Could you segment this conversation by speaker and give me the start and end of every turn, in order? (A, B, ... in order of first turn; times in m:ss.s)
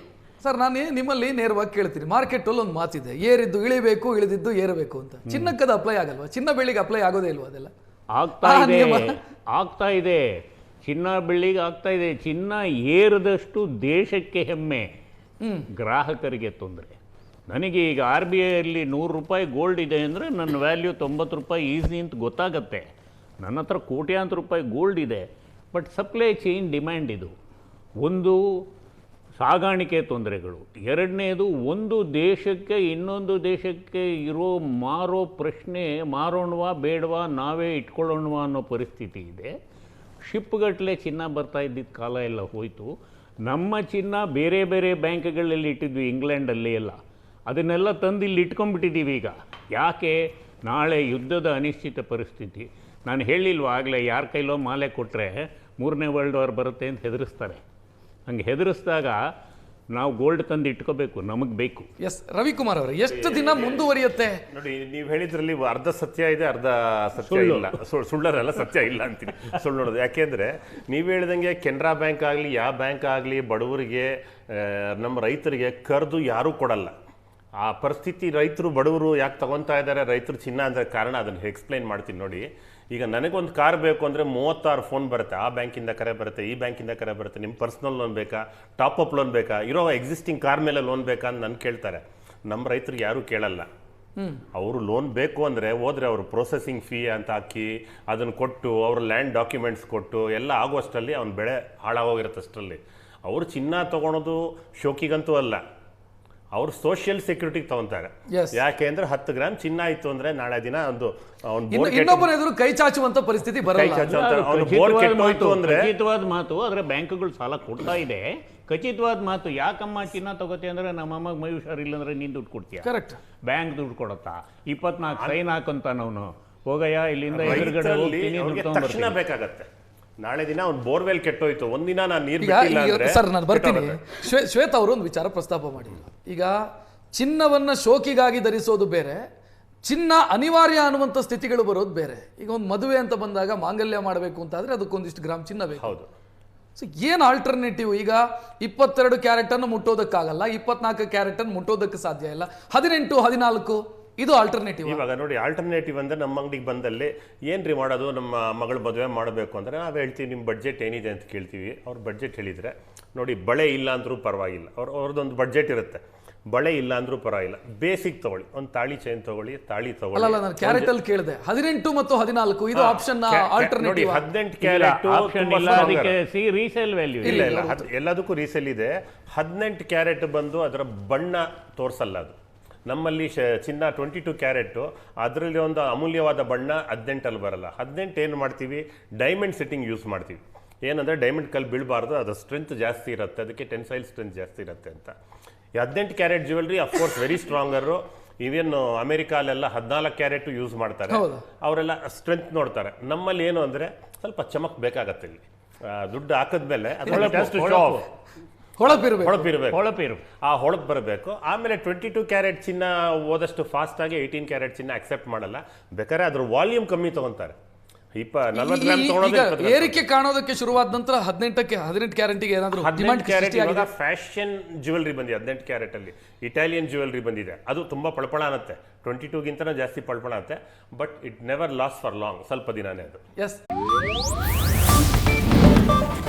0:00.4-0:07.7 A
0:05.3-0:05.5 B
0:08.1-0:10.2 B
0:08.4-0:09.2 A
0:10.8-0:14.9 B
0:15.4-0:15.7 A
0:15.8-0:16.9 B
0:17.5-0:22.8 B
0:23.4-0:27.3 B
0:28.0-0:28.4 B
0:29.4-0:39.5 B
0:40.3-0:42.9 B
0:43.4-0:57.6 B
0:58.3-0:59.2 B
0:59.9-1:01.9 B
1:02.0-1:04.4 A
1:03.1-1:03.9 C
1:04.5-1:16.9 C
1:07.2-1:07.8 B
1:17.6-1:33.7 C
1:34.5-1:45.6 C
1:46.5-1:52.3 C
1:48.3-1:48.6 A
1:51.7-1:54.1 A
1:53.7-1:55.9 C
1:54.1-2:02.9 B
2:02.8-2:03.2 A
2:03.5-2:09.2 B
2:07.3-2:09.7 C
2:10.2-2:14.0 C
2:12.4-2:19.2 A
2:19.8-2:25.9 A
2:25.8-2:26.1 C
2:26.8-2:35.0 A
2:34.8-2:50.9 C
2:50.1-2:54.2 A
2:52.7-2:56.2 C
2:54.6-2:57.6 B
2:57.2-3:02.4 C
2:57.2-2:57.9 A
3:02.9-3:15.1 C
3:15.8-3:28.0 C
3:21.1-3:21.4 A
3:27.0-3:28.0 B
3:28.8-3:29.5 A
3:29.1-3:29.8 C
3:29.7-3:30.2 B
3:30.4-3:37.6 C
3:38.1-3:40.0 C
3:38.5-3:43.9 A
3:42.8-3:53.2 C